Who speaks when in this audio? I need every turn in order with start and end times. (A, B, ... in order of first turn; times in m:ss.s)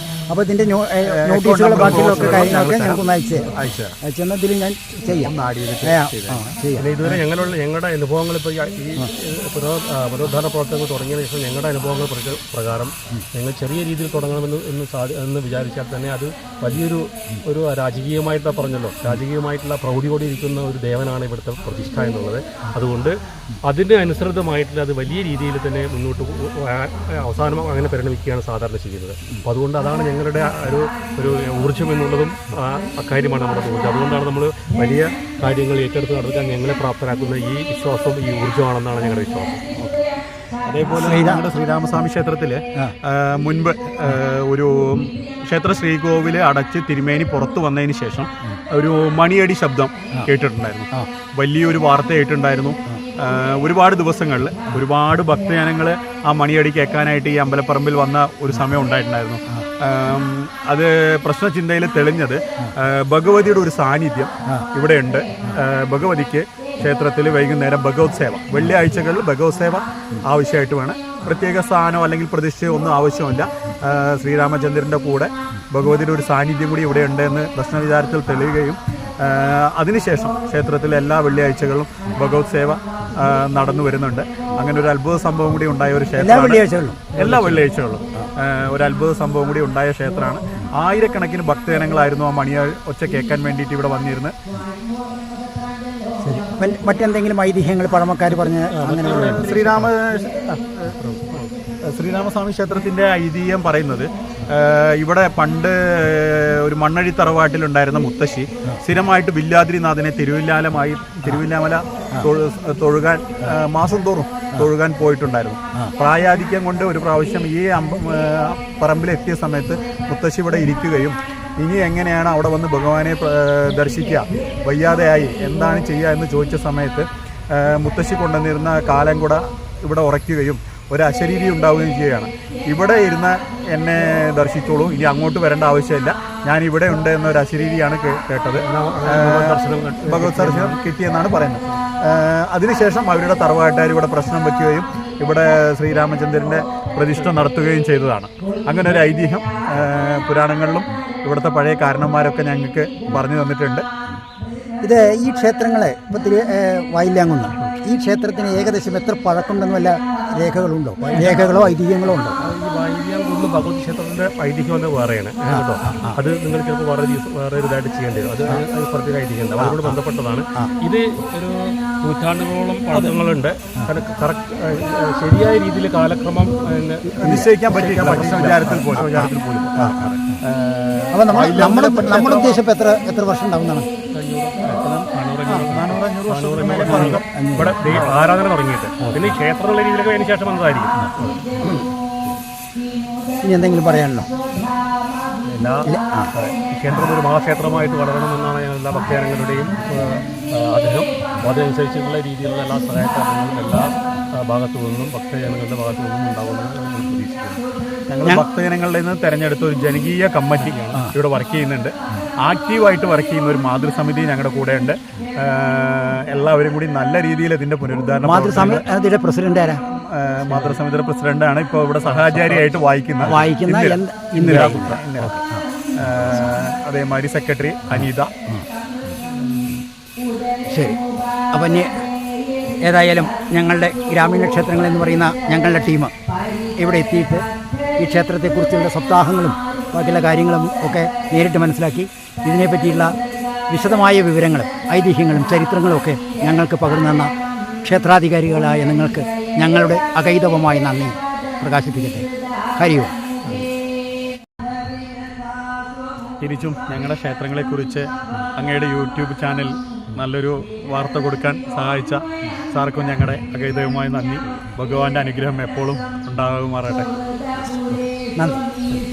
0:00.3-0:03.5 A
0:01.0-0:04.0 B
0:01.8-0:02.5 C
0:04.0-0:07.2 A
0:05.1-0:06.6 B
0:06.8-0:39.6 C
0:40.6-1:26.6 B
0:41.0-0:41.4 A
1:26.2-1:27.5 A
1:27.2-1:34.3 B
1:36.2-1:39.8 A
1:38.3-1:39.9 C
1:39.0-2:33.9 B
1:41.0-1:41.5 C
2:18.6-2:20.8 C
2:34.8-2:42.4 A
2:41.0-2:41.8 C
2:42.4-2:57.1 C
2:45.5-2:46.2 A
2:49.6-2:50.0 A
2:57.2-3:02.6 B
2:57.2-3:00.1 A
2:59.0-2:59.7 C
3:01.1-3:03.9 A
3:04.1-3:11.4 C
3:05.5-3:07.2 B
3:06.8-3:08.1 A
3:07.8-3:08.1 B
3:09.0-3:09.3 A
3:11.0-3:12.4 A
3:13.4-3:14.3 A
3:15.4-3:27.6 C
3:15.9-3:16.3 A
3:28.1-3:38.9 B
3:30.6-3:31.0 C
3:38.2-3:39.8 A
3:39.9-3:45.4 B
3:43.2-3:46.6 A
3:46.0-3:48.3 B
3:48.0-3:49.8 A
3:50.7-3:51.0 A
3:51.5-3:52.0 A
3:52.8-3:56.1 A
3:56.8-3:57.5 A
3:58.0-4:03.1 A
4:03.7-4:07.3 A
4:07.8-4:13.2 A
4:16.4-4:22.2 B
4:22.7-4:27.1 B
4:27.6-4:28.6 A